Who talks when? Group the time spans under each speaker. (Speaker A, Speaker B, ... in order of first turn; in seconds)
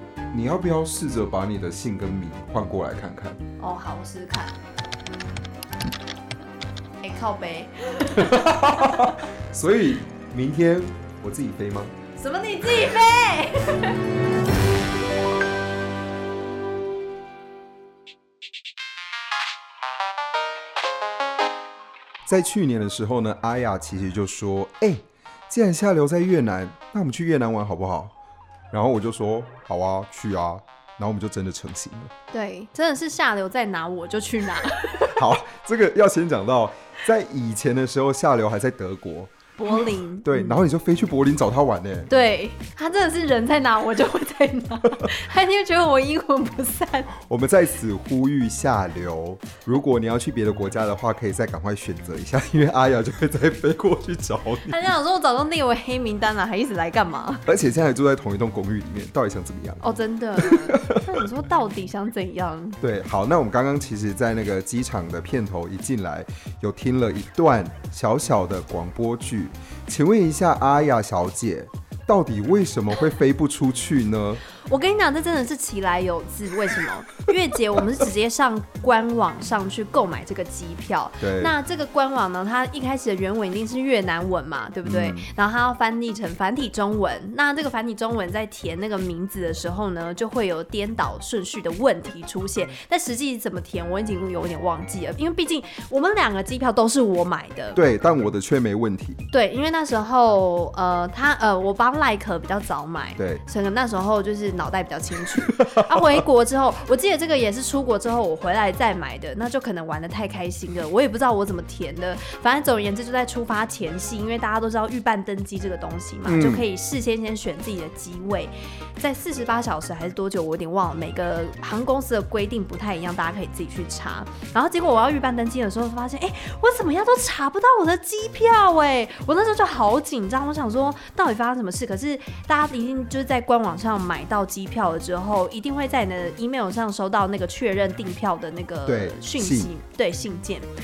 Speaker A: 0.3-3.4, 8.1-11.9, 22.2-28.1, 28.7-32.1, 35.1-42.1, 47.1-54.9, 57.5-59.8, 60.4-61.2, 62.8-74.4, 81.2-81.5, 84.8-85.3, 97.8-99.2, 103.2-103.4, 105.6-106.2, 116.3-116.7, 138.8-139.7
Speaker B: 3.6-4.5, 7.0-9.2, 12.2-14.0, 32.3-35.2, 39.6-40.6, 42.1-47.1, 54.7-57.4, 59.8-62.8, 74.6-97.8, 99.3-140.7